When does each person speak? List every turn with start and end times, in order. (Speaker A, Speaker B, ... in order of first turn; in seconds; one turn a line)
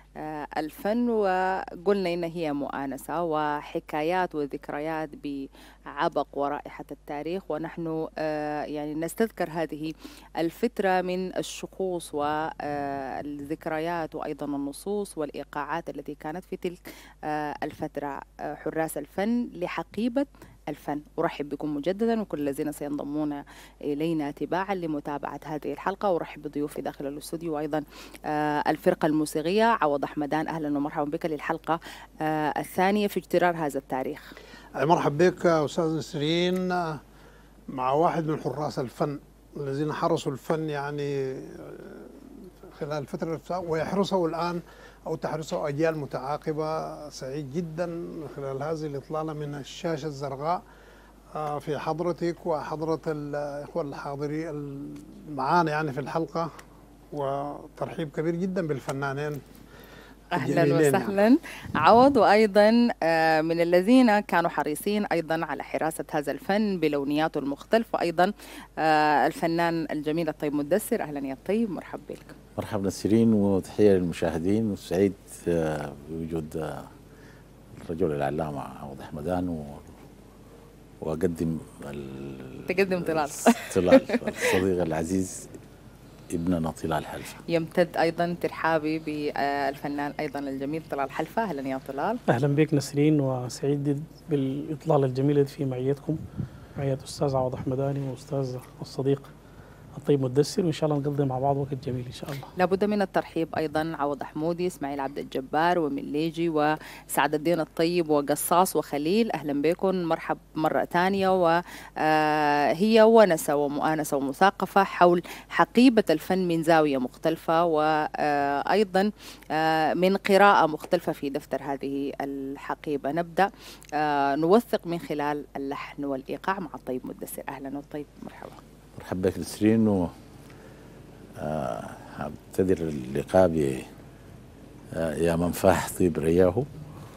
Speaker A: 0.2-34.3
Speaker B: 34.8-37.0
Speaker B: 37.7-50.6
Speaker B: 51.3-56.5
Speaker B: 57.1-59.4
Speaker A: 60.4-72.3
Speaker B: 60.4-61.1
Speaker C: 72.6-76.9
Speaker C: 77.8-79.8
Speaker C: 81.0-85.5
Speaker A: 82.7-84.5
Speaker C: 86.3-87.4
Speaker A: 87.5-92.2
Speaker D: 92.3-96.2
Speaker D: 96.8-99.3
Speaker D: 100.0-102.5
Speaker A: 102.5-128.6
Speaker C: 129.0-130.1
Speaker C: 131.4-133.9
Speaker C: 134.9-136.7